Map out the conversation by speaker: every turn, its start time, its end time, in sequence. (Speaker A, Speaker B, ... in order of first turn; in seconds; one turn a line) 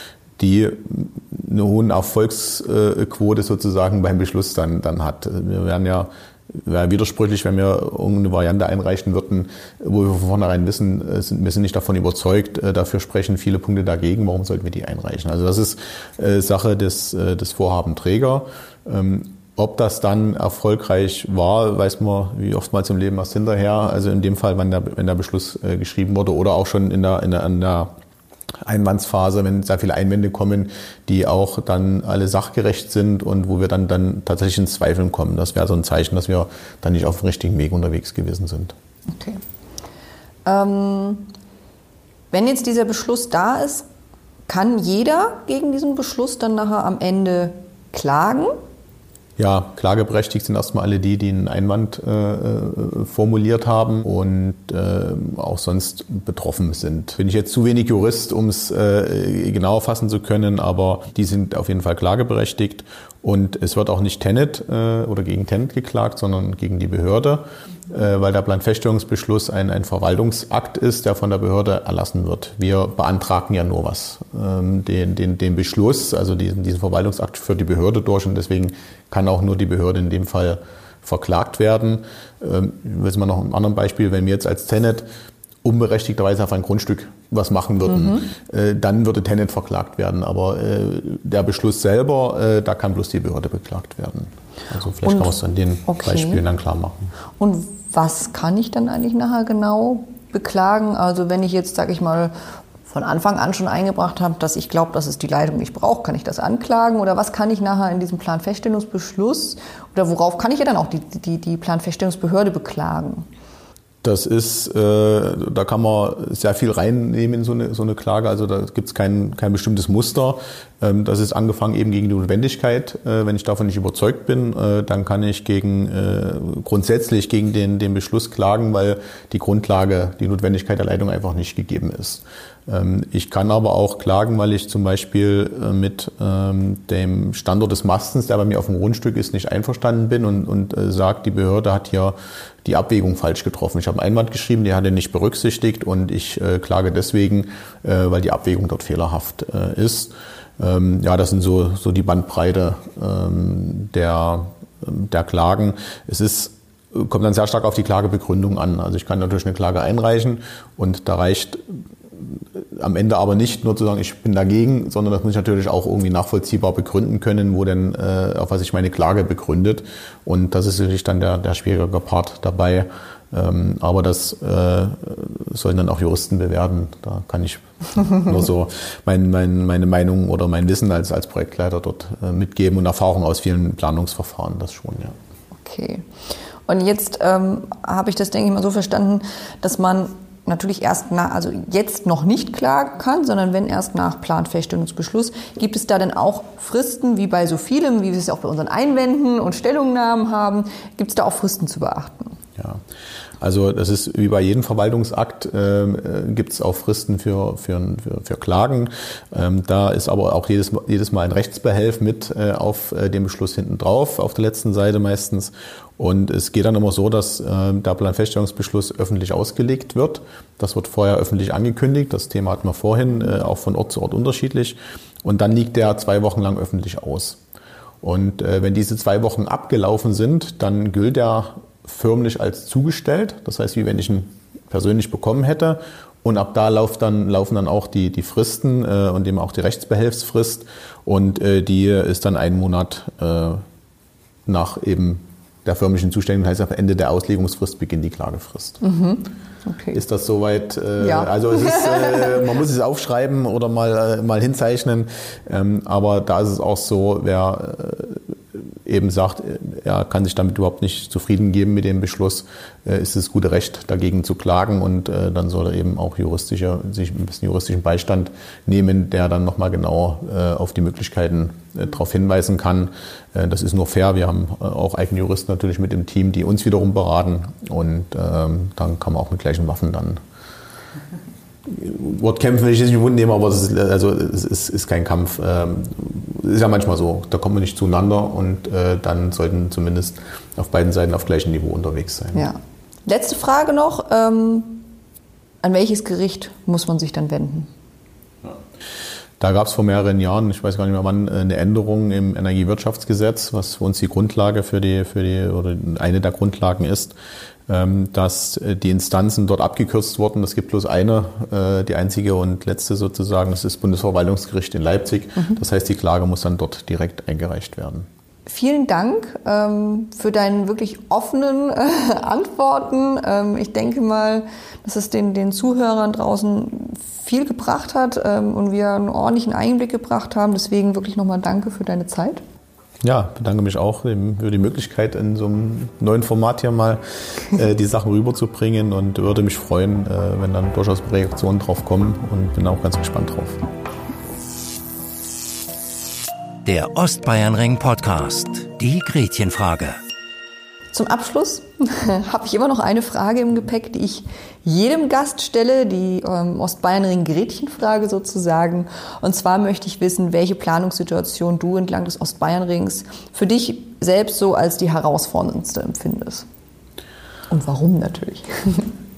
Speaker A: 0.4-27.9
Speaker A: 28.6-38.7
Speaker B: 39.1-39.4
Speaker B: 40.4-41.3
Speaker B: 42.3-43.9
Speaker B: 44.5-48.5
Speaker A: 49.4-85.0
Speaker A: 85.6-97.1
Speaker B: 87.8-88.3
Speaker B: 95.0-95.3
Speaker B: 95.9-96.4
Speaker B: 97.4-113.2
Speaker A: 114.0-185.1
Speaker B: 185.6-186.1
Speaker B: 186.7-202.4
Speaker A: 202.6-202.8
Speaker A: 203.4-227.4
Speaker A: 228.0-243.6
Speaker A: 244.4-248.8
Speaker B: 248.8-250.0
Speaker A: 249.9-280.2
Speaker B: 251.0-252.5
Speaker A: 281.7-292.4
Speaker B: 292.3-294.9
Speaker B: 295.6-297.7
Speaker A: 299.4-307.1
Speaker A: 307.7-318.1
Speaker B: 318.5-332.4
Speaker A: 333.0-343.6
Speaker C: 346.6-350.0
Speaker B: 350.9-366.5
Speaker B: 367.5-368.9